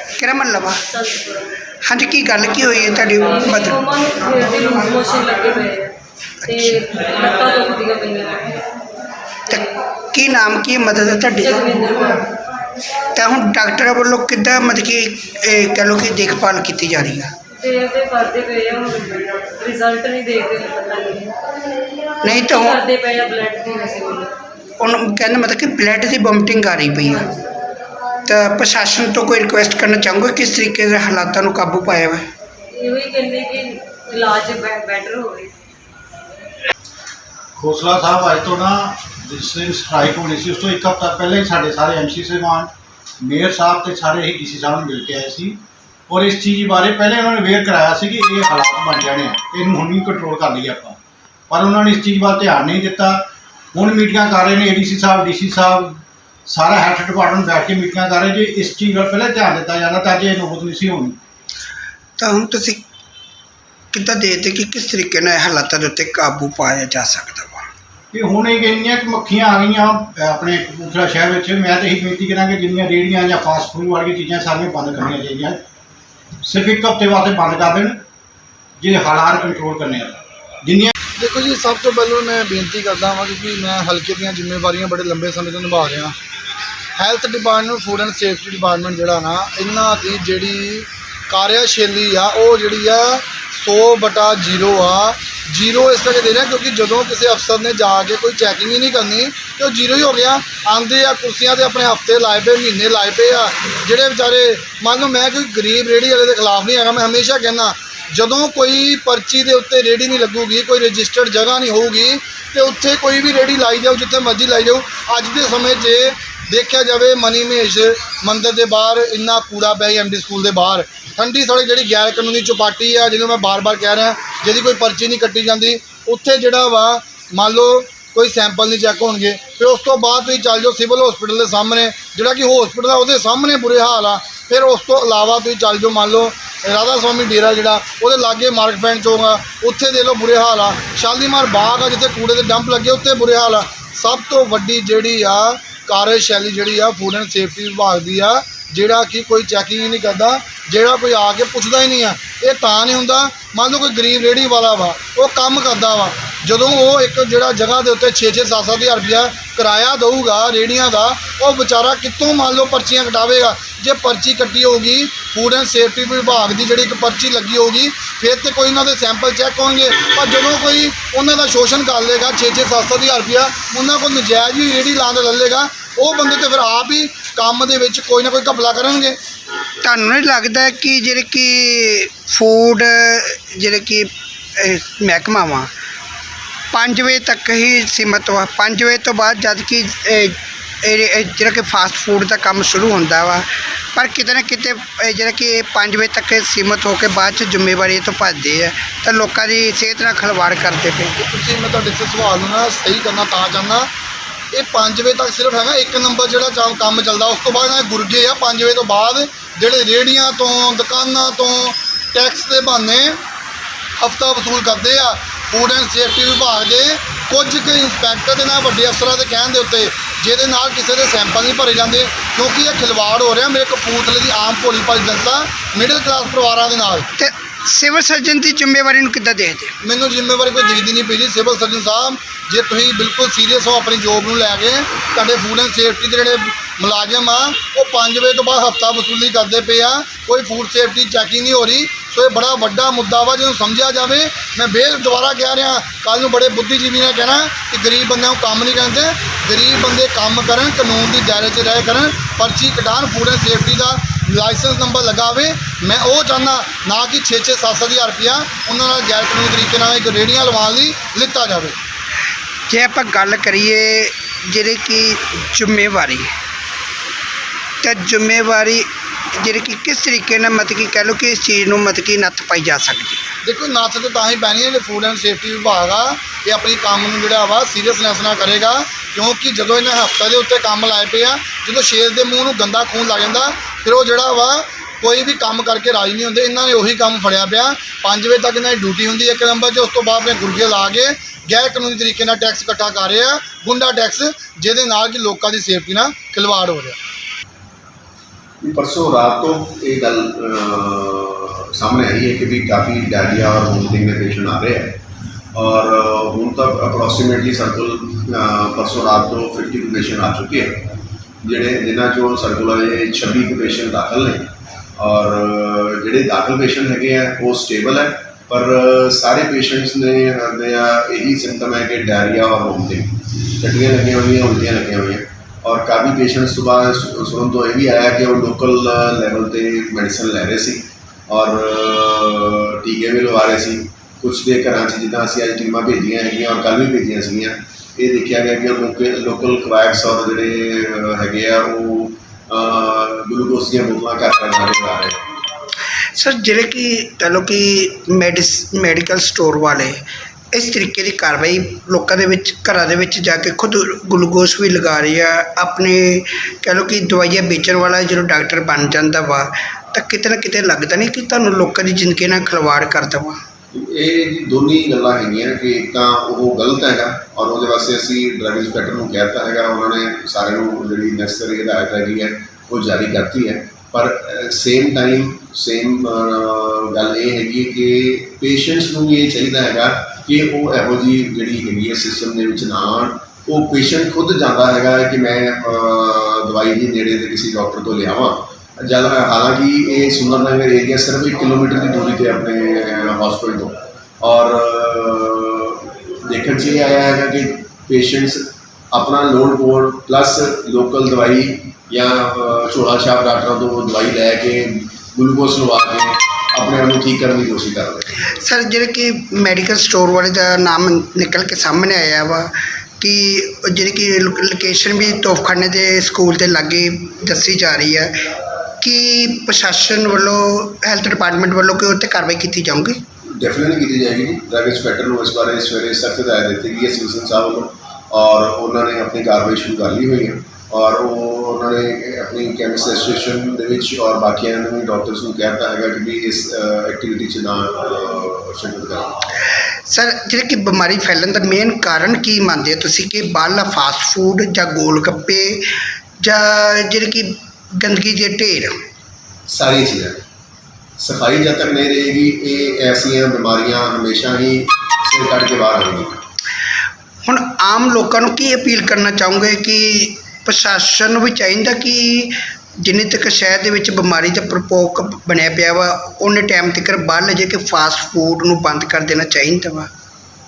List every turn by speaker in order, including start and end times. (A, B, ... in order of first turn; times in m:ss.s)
0:00.1-0:00.9 A
0:01.0-0:01.4 B
0:01.9-0:03.8 A
0:03.5-0:05.9 B
0:06.4-0:06.9 A
0:06.5-0:08.6 B
0:09.5-0:11.8 A
0:11.8-0:12.3 B
0:13.2-0:17.3 A
0:17.6-0:21.3 B
0:22.2-0:22.8 A
0:22.6-0:24.3 B
0:24.8-0:27.3 A
0:28.3-0:32.2 A
0:32.7-0:35.5 B
0:37.6-0:42.7 C
0:43.2-0:45.6 C
0:46.1-0:51.0 C
0:51.5-1:01.2 C
1:02.2-1:02.8 A
1:03.9-1:07.7 A
1:08.1-1:15.6 C
1:16.4-1:18.0 C
1:18.8-1:20.9 C
1:21.2-1:26.1 D
1:27.0-2:59.2 D
2:59.8-3:05.7 A
3:06.7-3:21.2 A
3:21.2-3:23.9 D
3:24.5-3:33.2 D
3:34.0-3:47.1 D
3:47.2-3:49.7 A
3:49.8-4:21.8 D
4:22.7-4:26.3 A
4:27.8-4:28.9 A
4:29.4-4:33.3 A
4:33.4-4:57.0 D
4:58.6-5:05.0 E
5:05.6-5:10.9 E
5:11.4-5:45.2 E
5:46.2-5:50.0 A
5:50.5-6:03.4 A
6:03.7-6:48.2 E
6:48.2-6:58.1 A
6:58.8-7:03.0 A
7:03.4-7:19.2 E
7:19.9-7:25.6 A
7:26.2-7:28.7 A
7:29.5-7:30.2 E
7:31.0-7:36.2 E
7:37.2-7:49.9 A